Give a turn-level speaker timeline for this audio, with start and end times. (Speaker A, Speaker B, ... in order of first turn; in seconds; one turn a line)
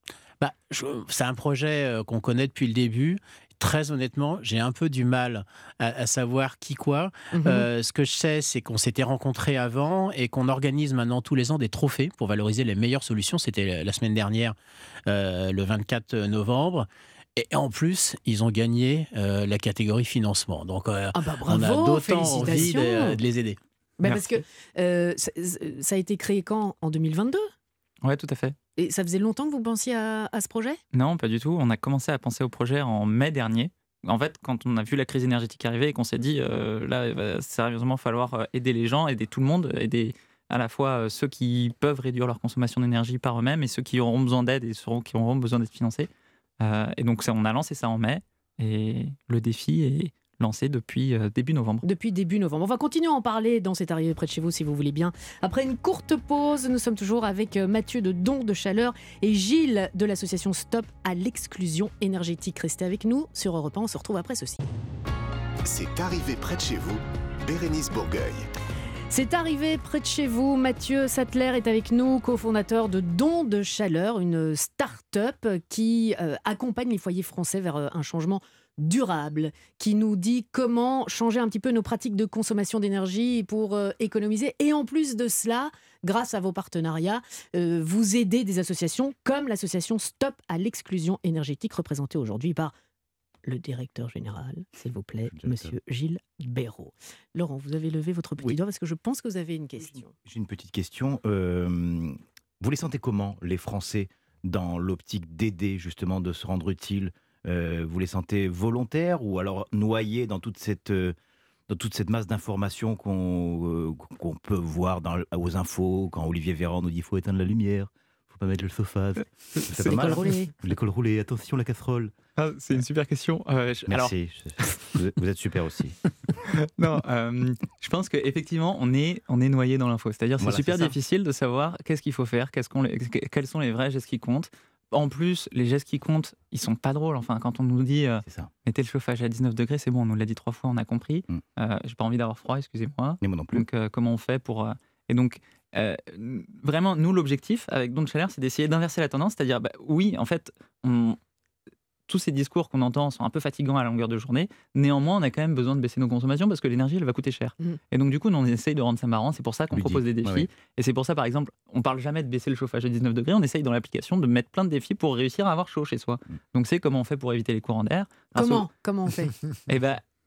Speaker A: 0.4-14.5
Speaker B: 7.3-7.7
Speaker A: 15.1-24.4
Speaker B: 21.1-23.2
Speaker B: 24.0-27.5
Speaker C: 28.0-28.5
Speaker B: 28.8-30.8
Speaker C: 30.9-46.1
Speaker C: 46.6-51.8
Speaker B: 51.8-64.6
Speaker D: 65.6-68.5
Speaker B: 69.1-92.7
Speaker B: 93.5-100.1
Speaker E: 95.3-95.7
Speaker E: 100.2-111.1
Speaker E: 111.7-122.1
Speaker C: 119.7-120.2
Speaker B: 119.9-120.5
Speaker C: 122.4-124.1
Speaker E: 123.9-126.0
Speaker C: 126.5-151.2
Speaker E: 130.4-130.9
Speaker E: 143.2-143.6
Speaker C: 152.1-168.7
Speaker E: 159.7-160.5
Speaker B: 168.3-169.3
Speaker C: 169.7-170.0